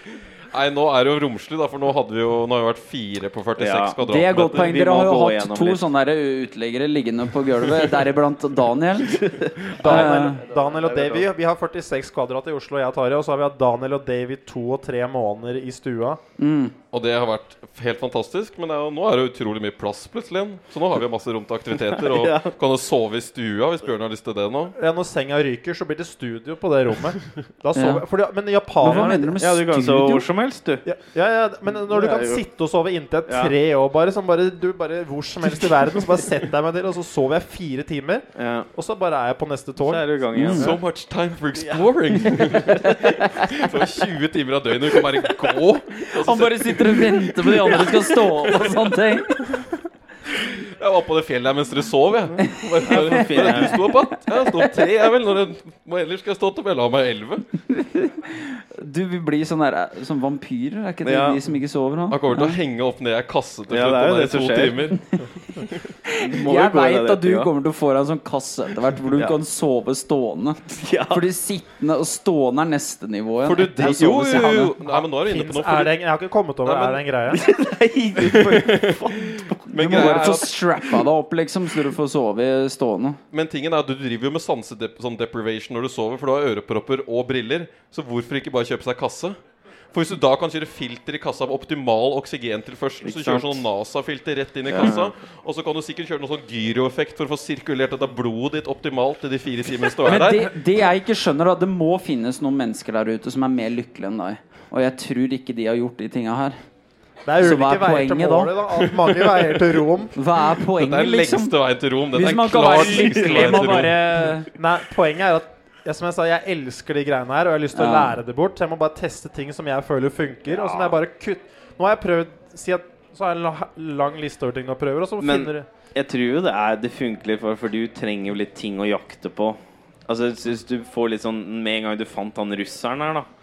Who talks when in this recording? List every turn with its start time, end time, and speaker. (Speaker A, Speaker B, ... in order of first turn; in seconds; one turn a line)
Speaker A: 0.5-4.7
Speaker B: 3.6-5.8
Speaker C: 4.0-10.4
Speaker B: 9.1-11.2
Speaker D: 9.8-16.2
Speaker C: 16.4-16.7
Speaker A: 16.9-24.7
Speaker B: 22.0-22.5
Speaker D: 24.7-29.3
Speaker C: 27.7-28.0
Speaker C: 28.8-30.3
Speaker B: 28.9-30.8
Speaker D: 30.8-40.0
Speaker B: 31.8-32.4
Speaker B: 33.3-33.5
Speaker B: 38.4-38.7
Speaker B: 39.8-40.8
Speaker C: 40.3-40.7
Speaker A: 40.4-47.9
Speaker B: 41.6-43.0
Speaker C: 42.8-43.5
Speaker C: 46.0-49.5
Speaker A: 50.3-57.4
Speaker C: 52.4-54.7
Speaker B: 52.9-53.8
Speaker C: 57.7-62.6
Speaker B: 61.0-61.4
Speaker A: 62.1-65.8
Speaker B: 63.7-64.9
Speaker C: 66.0-74.7
Speaker B: 66.1-67.5
Speaker B: 70.7-71.2
Speaker A: 73.4-75.9
Speaker D: 73.8-77.4
Speaker A: 76.6-77.0
Speaker B: 77.3-79.6
Speaker A: 78.2-80.5
Speaker C: 79.7-83.2
Speaker A: 83.3-89.4
Speaker A: 89.9-100.5
Speaker B: 93.0-93.6
Speaker B: 94.7-95.1
Speaker C: 100.0-106.5
Speaker D: 107.2-110.2
Speaker C: 107.4-108.5
Speaker C: 110.1-111.5
Speaker A: 110.8-114.2
Speaker C: 112.1-114.5
Speaker B: 113.0-113.8
Speaker D: 114.5-125.7
Speaker C: 117.7-118.1
Speaker B: 120.5-121.0
Speaker B: 125.2-133.3